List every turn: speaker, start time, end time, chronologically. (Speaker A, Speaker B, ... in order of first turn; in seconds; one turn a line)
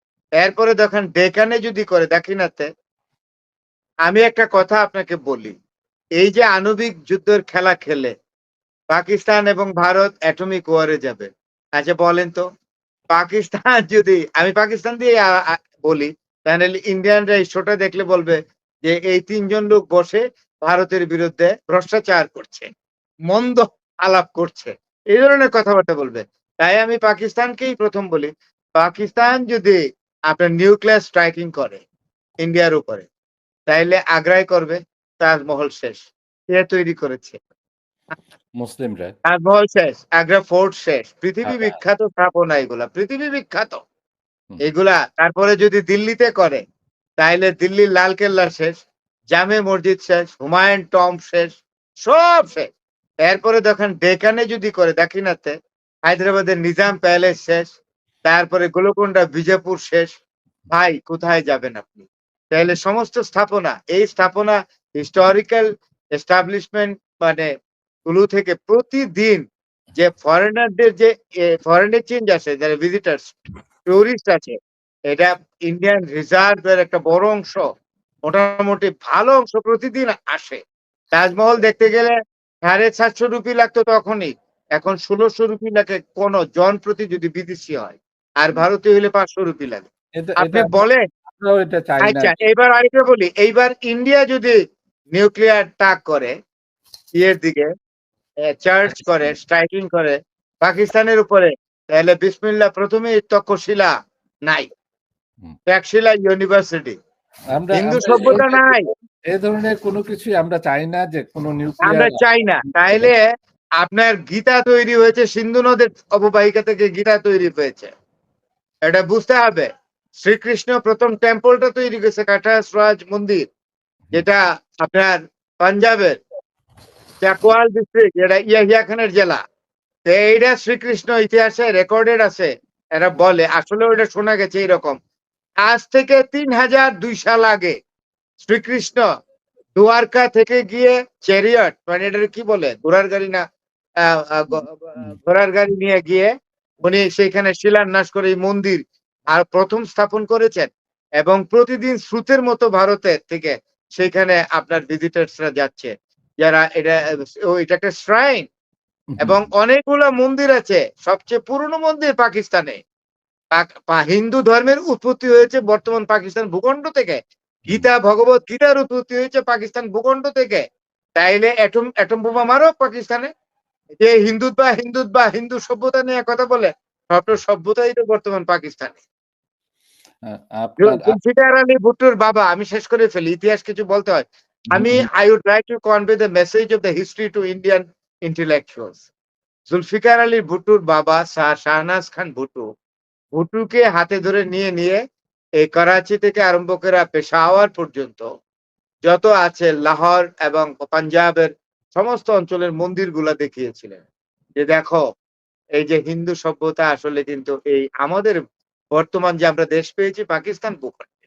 Speaker A: 0.4-2.7
Speaker A: 4.0-5.6
Speaker A: 6.2-8.1
Speaker A: 8.9-12.4
Speaker A: 13.1-22.7
Speaker A: 23.3-31.8
Speaker A: 32.4-33.0
Speaker A: 33.7-37.4
Speaker B: 38.6-39.1
Speaker A: 39.2-43.8
Speaker B: 41.4-41.8
Speaker A: 44.6-46.6
Speaker A: 47.2-48.8
Speaker A: 49.3-52.7
Speaker A: 53.2-55.5
Speaker A: 56.1-60.1
Speaker A: 60.7-67.5
Speaker A: 68.0-73.3
Speaker A: 73.9-74.6
Speaker A: 75.1-77.6
Speaker A: 78.2-80.6
Speaker A: 81.1-91.0
Speaker B: 90.2-90.8
Speaker B: 91.3-92.4
Speaker A: 92.0-94.6
Speaker A: 95.1-96.3
Speaker A: 97.2-97.7
Speaker A: 98.5-103.9
Speaker B: 98.8-99.3
Speaker A: 105.7-107.0
Speaker B: 107.5-108.8
Speaker A: 107.7-108.8
Speaker B: 109.3-112.2
Speaker A: 111.8-113.3
Speaker A: 113.8-117.9
Speaker A: 118.9-119.7
Speaker A: 120.2-123.4
Speaker A: 124.1-126.2
Speaker A: 127.2-129.4
Speaker A: 130.1-135.0
Speaker A: 135.7-137.8
Speaker A: 138.4-139.1
Speaker A: 139.8-143.4
Speaker A: 144.0-146.3
Speaker B: 144.5-145.2
Speaker A: 146.8-158.5
Speaker B: 159.1-159.4
Speaker A: 159.2-162.8
Speaker A: 163.5-170.6
Speaker A: 171.2-173.3
Speaker A: 174.0-179.0
Speaker B: 180.3-181.2
Speaker A: 180.8-189.0
Speaker B: 184.7-185.1
Speaker A: 189.7-192.7
Speaker A: 193.3-195.0
Speaker A: 195.6-198.3
Speaker A: 199.1-204.0
Speaker A: 204.6-205.0
Speaker A: 205.8-208.4
Speaker A: 208.9-211.1